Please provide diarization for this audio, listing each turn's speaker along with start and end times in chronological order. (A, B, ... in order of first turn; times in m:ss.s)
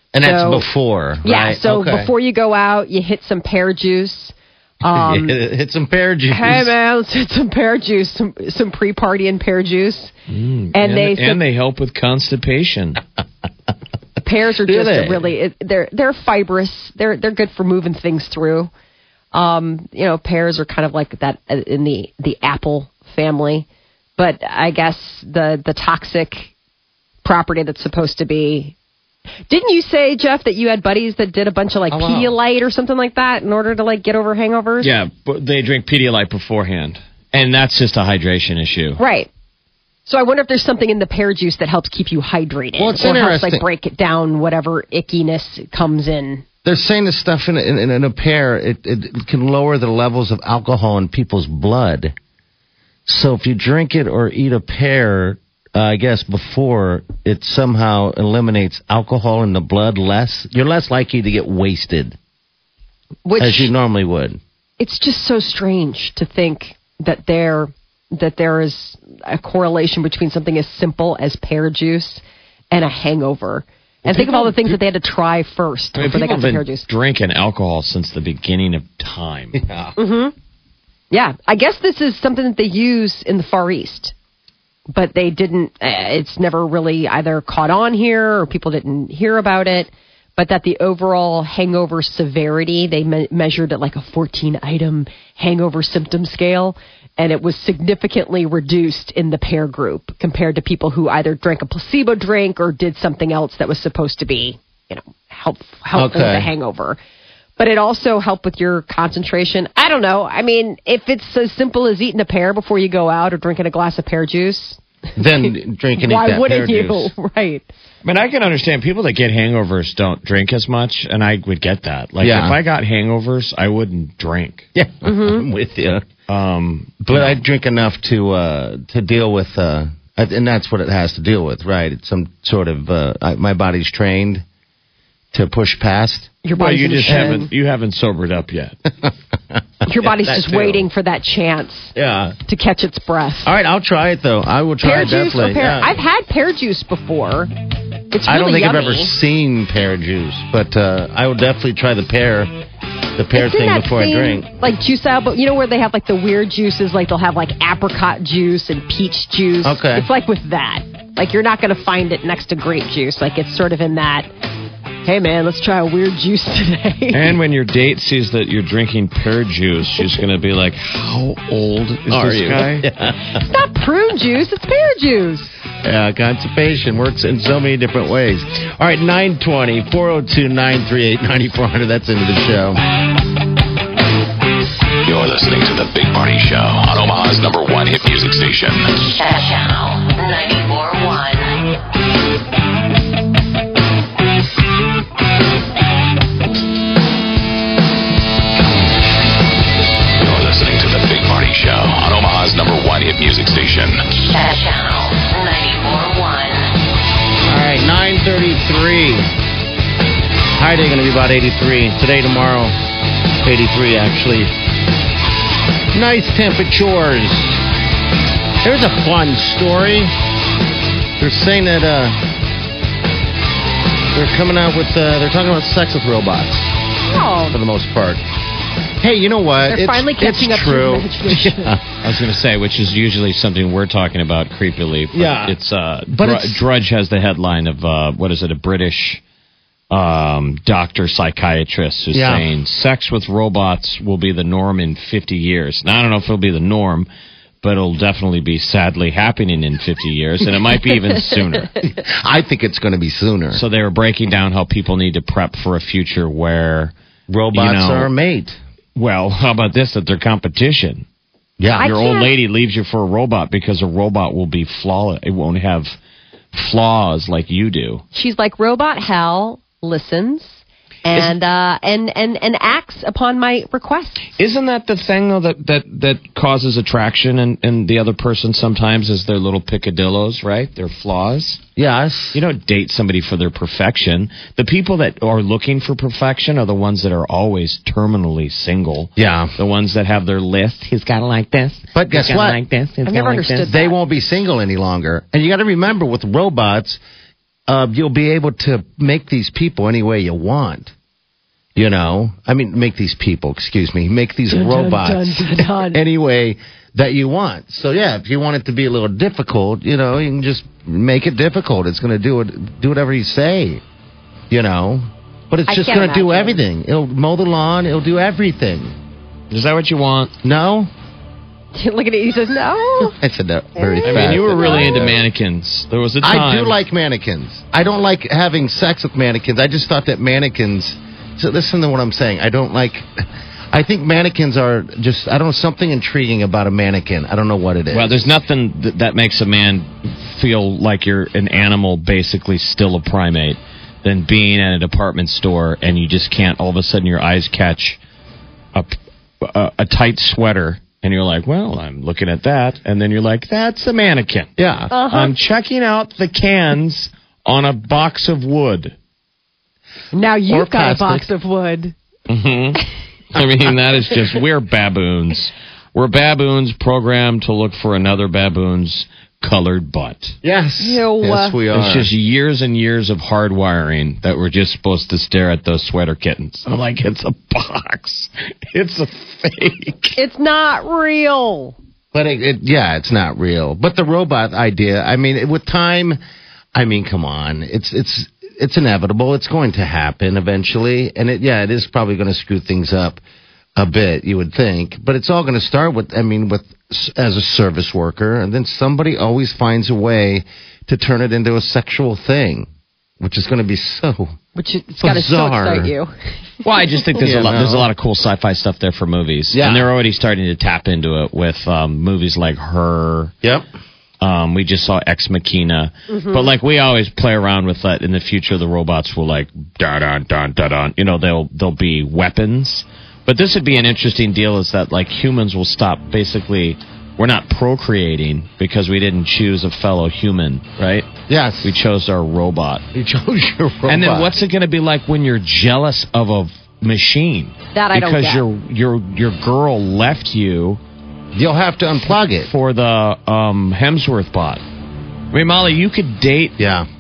0:00.1-0:02.1 A
0:00.2-0:00.7 B
0:01.2-0:05.4 B
0:04.9-0:06.7 A
0:06.3-0:10.1 B
0:10.3-0:13.0 C
0:10.7-0:11.4 B
0:14.2-0:18.7 B
0:14.6-0:15.3 A
0:19.3-0:23.7 B
0:24.2-0:26.5 B
0:27.2-0:28.8 B
0:29.5-0:34.9 B
0:31.9-0:32.4 A
0:34.8-0:39.0 C
0:39.0-0:39.3 B
0:40.1-0:46.4 B
0:42.8-0:43.7 A
0:46.6-0:52.2 A
0:53.1-1:02.2 A
1:03.2-1:03.7 B
1:03.4-1:04.4 A
1:04.8-1:16.9 B
1:14.0-1:14.8 C
1:16.0-1:19.6 C
1:19.5-1:20.0 A
1:20.0-1:20.3 B
1:21.1-1:24.2 B
1:24.9-1:47.0 B
1:45.9-1:46.5 A
1:47.6-1:54.8 B
1:55.2-1:57.1 A
1:56.0-1:57.7 B
1:58.0-2:04.7 C
2:02.2-2:02.6 A
2:04.8-2:06.1 A
2:05.0-2:05.4 B
2:06.3-2:07.4 C
2:07.0-2:14.4 A
2:15.3-2:16.3 A
2:16.4-2:17.5 B
2:16.6-2:18.8 C
2:17.1-2:17.4 A
2:19.8-2:23.5 B
2:20.0-2:20.8 A
2:20.6-2:20.8 C
2:22.0-2:22.4 A
2:23.4-2:25.9 A
2:24.8-2:27.5 B
2:28.1-2:29.1 B
2:28.2-2:32.5 A
2:33.2-2:34.5 A
2:33.3-2:44.3 B
2:39.6-2:40.1 A
2:45.0-2:47.4 B
2:47.1-2:52.9 C
2:52.1-2:53.4 A
2:53.4-2:55.5 B
2:55.8-3:02.8 A
3:05.0-3:09.0 D
3:09.0-3:11.5 E
3:20.2-3:24.0 D
3:24.3-3:26.6 E
3:27.4-3:29.3 A
3:30.6-3:32.8 A
3:33.4-3:34.5 A
3:35.9-3:37.6 A
3:38.6-3:40.1 A
3:41.2-3:42.2 A
3:44.1-3:46.7 A
3:47.1-3:47.6 B
3:47.5-3:48.2 A
3:49.0-3:51.8 A
3:49.7-3:51.8 B
3:52.0-3:59.2 C
3:55.1-3:55.6 A
3:56.1-3:56.6 A
3:59.9-4:07.1 C
4:02.1-4:02.5 A
4:07.6-4:11.8 C
4:11.8-4:13.6 A
4:13.5-4:17.0 C
4:17.3-4:18.6 A
4:17.5-4:18.1 C
4:19.0-4:21.1 C
4:21.6-4:21.9 A
4:21.8-4:22.3 B
4:21.8-4:26.0 C
4:26.5-4:28.0 C
4:28.1-4:34.3 B
4:34.4-4:41.6 C
4:41.8-4:42.4 A
4:42.3-4:53.7 C
4:49.2-4:49.5 A
4:52.0-4:52.6 A
4:53.0-4:54.0 B
4:53.6-4:57.0 A
4:57.7-5:00.9 A
5:01.8-5:13.8 A
5:04.5-5:06.0 B
5:14.5-5:18.9 A
5:15.7-5:16.6 B
5:19.5-5:20.4 C
5:20.4-5:20.9 A
5:21.7-5:23.2 B
5:23.2-5:25.2 A
5:23.8-5:25.1 B
5:24.0-5:26.8 C
5:26.2-5:33.1 A
5:33.7-5:38.3 A
5:37.9-5:48.0 C
5:48.7-5:54.5 C
5:54.6-5:54.9 A
5:54.9-5:55.4 B
5:55.1-5:59.0 C
6:00.1-6:02.0 B
6:00.5-6:01.3 A
6:02.3-6:10.4 C
6:10.4-6:12.1 A
6:10.8-6:11.6 B
6:11.7-6:20.2 C
6:20.2-6:21.8 B
6:22.1-6:26.2 A
6:26.8-6:33.2 A
6:33.8-6:42.7 A
6:43.2-6:44.3 A
6:44.6-6:46.7 B
6:45.0-6:46.0 A
6:46.6-6:53.3 C
6:47.2-6:47.9 A
6:49.5-6:49.9 A
6:54.2-7:11.1 C
6:56.1-6:56.5 B
7:11.3-7:11.7 A
7:11.6-7:12.8 C
7:12.9-7:14.3 A
7:13.9-7:20.8 C
7:17.7-7:18.4 B
7:21.4-7:22.5 A
7:22.4-7:24.6 C
7:25.3-7:26.6 C
7:26.6-7:26.9 A